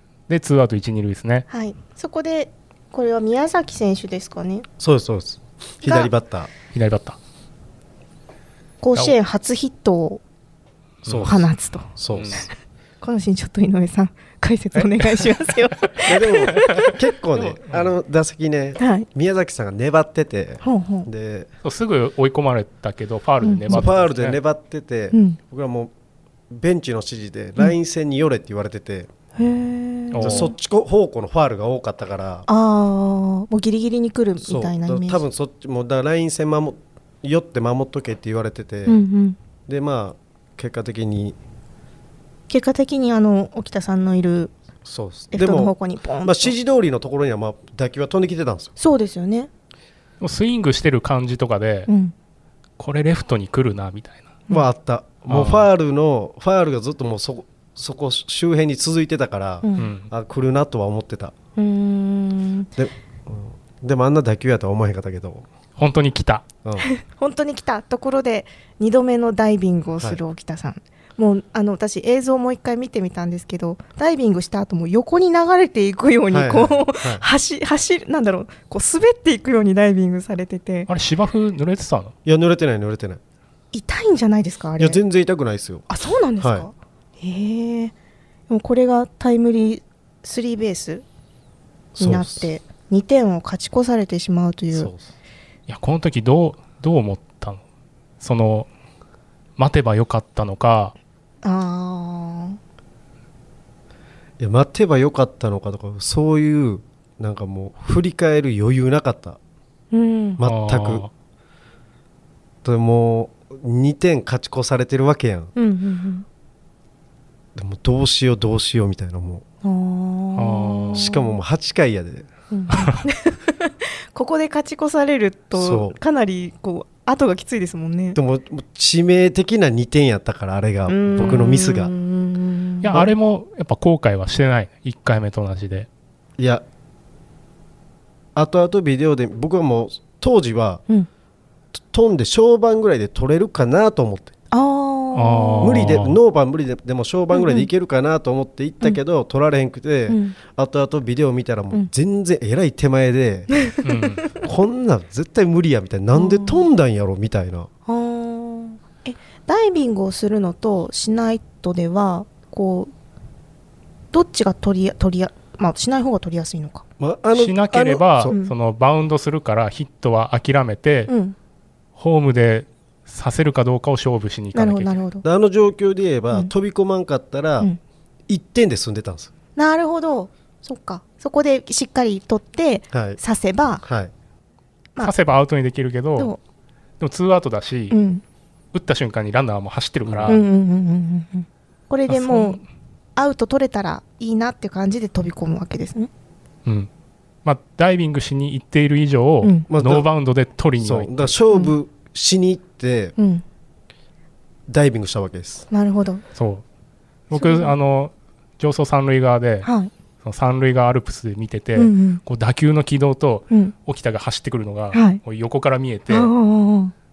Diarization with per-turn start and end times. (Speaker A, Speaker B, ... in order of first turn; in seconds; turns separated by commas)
Speaker A: 0.3-1.5, Speaker B: 1.5-4.7, Speaker C: 4.8-6.5, Speaker B: 5.8-6.1, Speaker A: 6.7-7.2, Speaker B: 8.8-10.2, Speaker A: 11.0-11.4, Speaker C: 11.1-12.5, Speaker B: 11.2-11.9, Speaker A: 12.1-12.5, Speaker B: 13.0-16.9, Speaker A: 14.8-15.9, Speaker C: 16.1-21.5, Speaker A: 16.5-16.8, Speaker A: 17.4-17.9, Speaker B: 18.8-19.1, Speaker B: 20.6-21.1, Speaker A: 21.6-24.4, Speaker B: 23.4-23.8, Speaker C: 23.7-25.9, Speaker B: 25.1-25.4, Speaker C: 26.5-29.1, Speaker B: 29.4-30.5, Speaker A: 30.1-30.5, Speaker C: 30.2-32.5, Speaker B: 32.5-35.2, Speaker C: 34.4-39.0, Speaker B: 38.9-39.4, Speaker C: 39.7-41.4, Speaker B: 42.5-44.5, Speaker C: 44.9-48.7, Speaker B: 45.3-46.6, Speaker B: 48.8-49.5, Speaker A: 50.2-51.9, Speaker B: 51.9-52.1, Speaker A: 52.8-54.2, Speaker C: 54.5-61.3, Speaker A: 55.3-55.7, Speaker B: 59.6-59.9, Speaker A: 59.8-60.1, Speaker B: 61.6-62.7, Speaker C: 62.8-65.5, Speaker A: 65.8-66.5, Speaker B: 66.8-80.9, Speaker C: 76.3-77.2, Speaker A: 80.9-82.1, Speaker C: 82.2-83.2, Speaker B: 83.7-85.0, Speaker C: 84.8-86.7, Speaker B: 85.9-87.9, Speaker B: 88.5-91.0, Speaker C: 92.0-92.5, Speaker B: 92.0-94.9, Speaker C: 94.7-95.1, Speaker A: 95.7-97.6, Speaker A: 98.2-98.7, Speaker A: 99.6-101.0, Speaker B: 101.4-102.6, Speaker C: 104.4-109.4, Speaker B: 109.9-110.4, Speaker C: 110.4-111.1, Speaker A: 110.4-111.1, Speaker C: 112.6-115.5, Speaker B: 115.5-116.3, Speaker C: 117.6-119.4, Speaker B: 119.6-121.4, Speaker A: 120.4-121.1, Speaker C: 121.0-122.3, Speaker B: 122.5-128.2, Speaker A: 122.7-123.0, Speaker C: 125.5-126.0, Speaker C: 128.2-131.9, Speaker B: 130.9-133.0, Speaker A: 132.8-135.9, Speaker C: 136.4-136.6, Speaker C: 138.4-140.8, Speaker C: 141.9-144.3, Speaker B: 144.5-145.9, Speaker A: 145.1-146.2, Speaker C: 145.6-153.5, Speaker B: 147.3-147.7, Speaker B: 150.1-150.4, Speaker B: 153.5-153.8, Speaker A: 153.8-154.3, Speaker C: 154.4-157.7, Speaker B: 156.1-156.7, Speaker B: 157.9-162.9, Speaker B: 164.1-166.8, Speaker C: 167.0-168.4, Speaker A: 167.3-171.1, Speaker B: 168.3-168.5, Speaker B: 171.1-171.4, Speaker A: 172.0-175.0, Speaker B: 174.5-175.2, Speaker C: 175.2-177.7, Speaker C: 178.3-179.3, Speaker B: 179.6-183.8, Speaker C: 182.9-183.2, Speaker C: 183.8-184.1, Speaker A: 185.0-186.3, Speaker A: 187.0-188.0, Speaker B: 187.9-188.2, Speaker A: 188.7-190.4, Speaker C: 190.1-190.4, Speaker B: 190.3-192.6, Speaker A: 192.1-192.6, Speaker B: 193.2-196.1, Speaker A: 197.4-201.3, Speaker B: 199.4-199.7, Speaker C: 199.7-200.1, Speaker C: 200.8-203.2, Speaker B: 203.2-203.4, Speaker C: 204.7-205.7, Speaker B: 205.7-206.2, Speaker A: 206.3-206.6, Speaker A: 207.3-209.7, Speaker B: 207.3-207.8, Speaker B: 209.6-209.9, Speaker A: 210.2-216.3, Speaker B: 211.8-212.2, Speaker B: 213.5-213.8, Speaker B: 214.9-215.2, Speaker B: 216.1-216.9